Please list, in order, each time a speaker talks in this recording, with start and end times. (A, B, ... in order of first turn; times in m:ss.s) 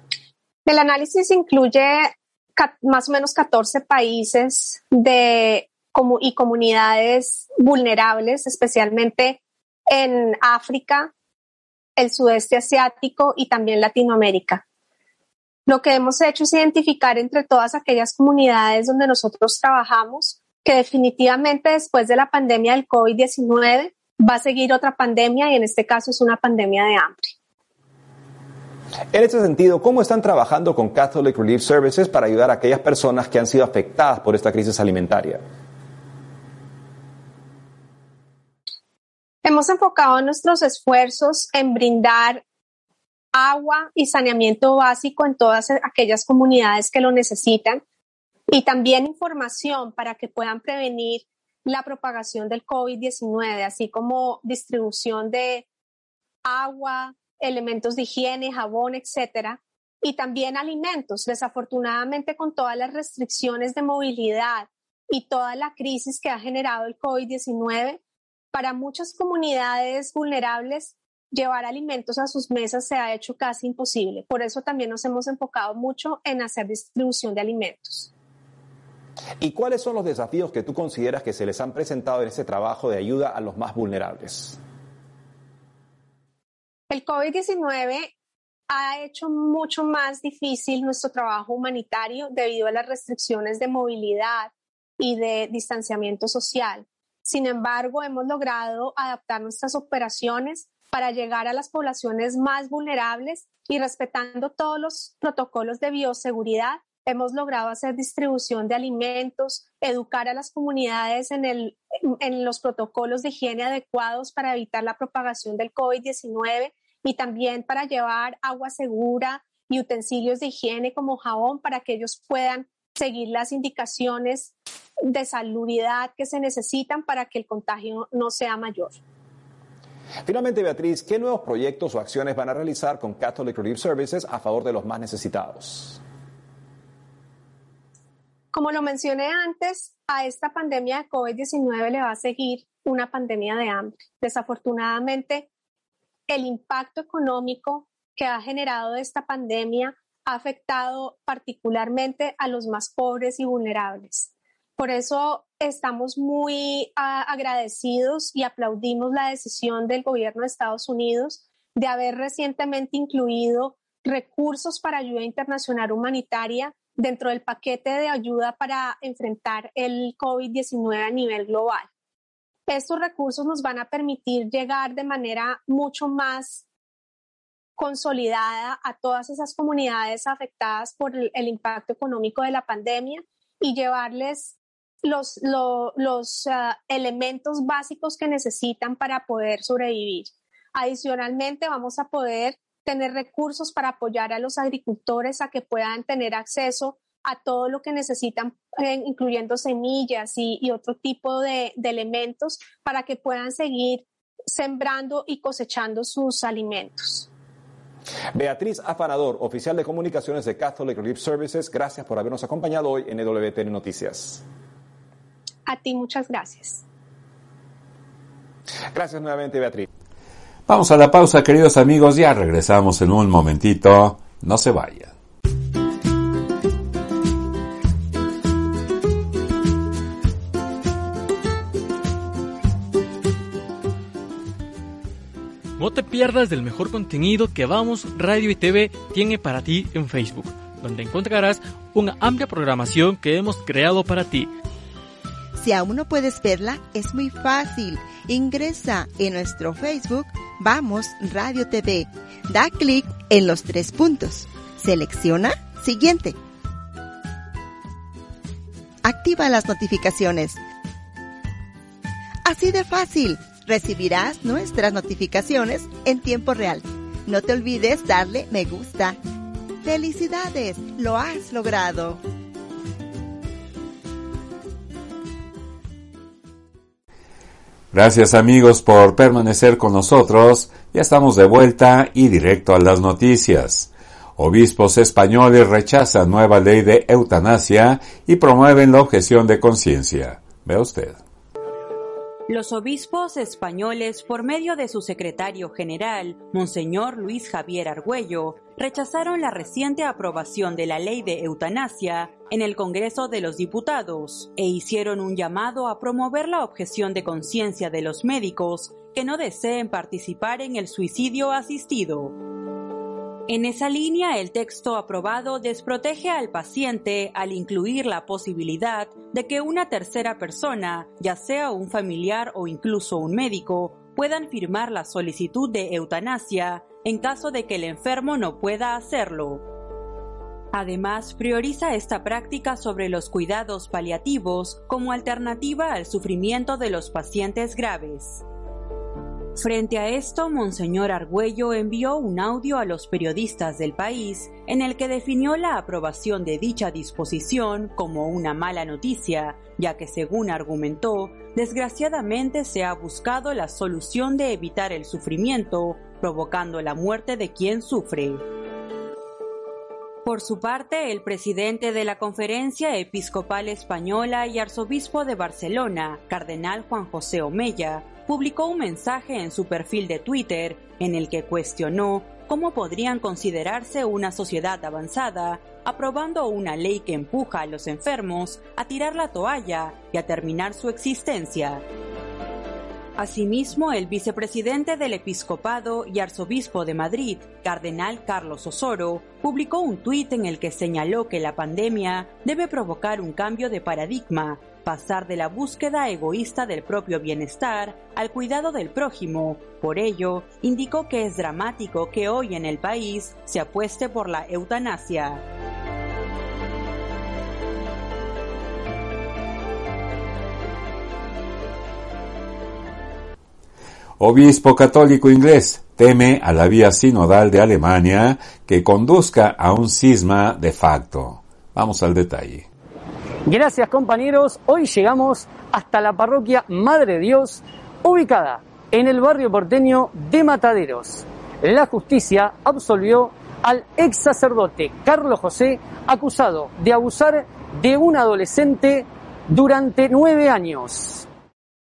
0:00.7-0:11.1 A
0:12.0-0:14.6 A
0:15.7-0:27.3 A
0:29.1-0:35.4 B
0:39.4-0:42.4 A
0:43.3-0:47.8 A
0:48.5-0:55.7 A
0:56.4-1:08.0 A
1:08.5-1:18.1 A
1:19.4-1:24.6 B
1:26.9-1:28.1 A
1:28.7-2:04.5 A
2:05.1-2:09.0 A
2:10.2-2:16.0 B
2:18.5-2:25.5 A
2:26.3-2:51.9 A
2:52.7-2:56.6 A
2:57.8-3:27.3 A
3:28.3-3:34.4 B
3:35.7-3:36.8 A
3:38.9-3:39.9 B
3:40.7-3:45.1 C
3:55.8-4:04.5 D
4:05.6-4:16.4 E
4:19.0-4:20.6 E
4:22.4-4:29.2 E
4:29.8-4:32.2 E
4:37.9-4:51.2 C
4:52.5-5:12.4 F
5:13.5-5:29.6 F
5:30.7-5:38.4 F
5:39.6-5:58.4 F
6:00.2-6:21.8 F
6:23.2-6:45.4 F
6:54.2-7:02.7 C
7:03.5-7:21.3 G